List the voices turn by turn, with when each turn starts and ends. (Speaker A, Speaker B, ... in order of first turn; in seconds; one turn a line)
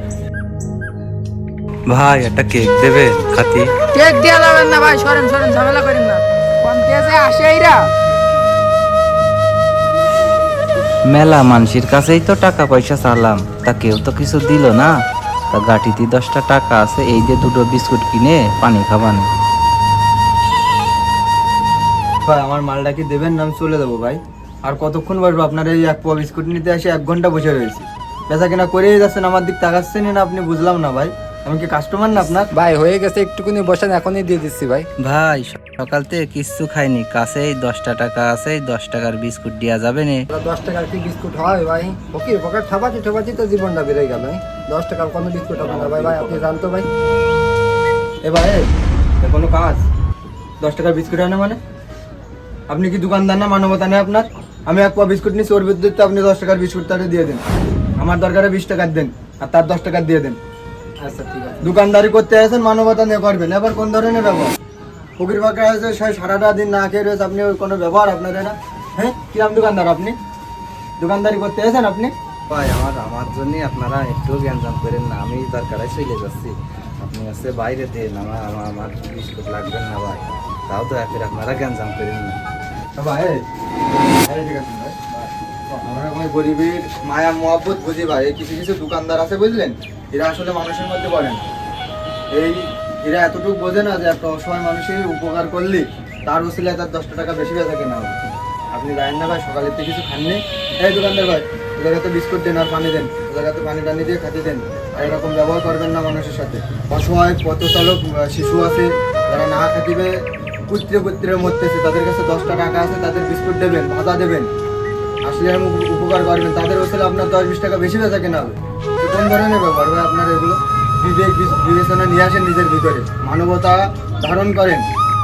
Speaker A: 1.9-3.7
Speaker B: 3.9-7.9
Speaker A: 11.1-14.9
Speaker A: 15.5-19.3
Speaker C: 22.3-32.5
Speaker D: 32.2-34.9
Speaker A: 35.0-40.3
Speaker D: 40.3-46.9
Speaker C: 45.6-46.5
Speaker C: 48.2-48.7
Speaker C: 49.2-49.9
Speaker C: 50.6-51.6
Speaker C: 52.7-57.4
Speaker C: 58.0-60.4
Speaker D: 61.0-61.7
Speaker C: 61.6-64.5
Speaker C: 65.2-70.2
Speaker C: 71.0-72.1
Speaker A: 72.5-82.4
Speaker C: 83.0-91.4
Speaker C: 92.3-98.2
Speaker C: 98.7-110.2
Speaker C: 110.7-114.5
Speaker C: 115.2-124.8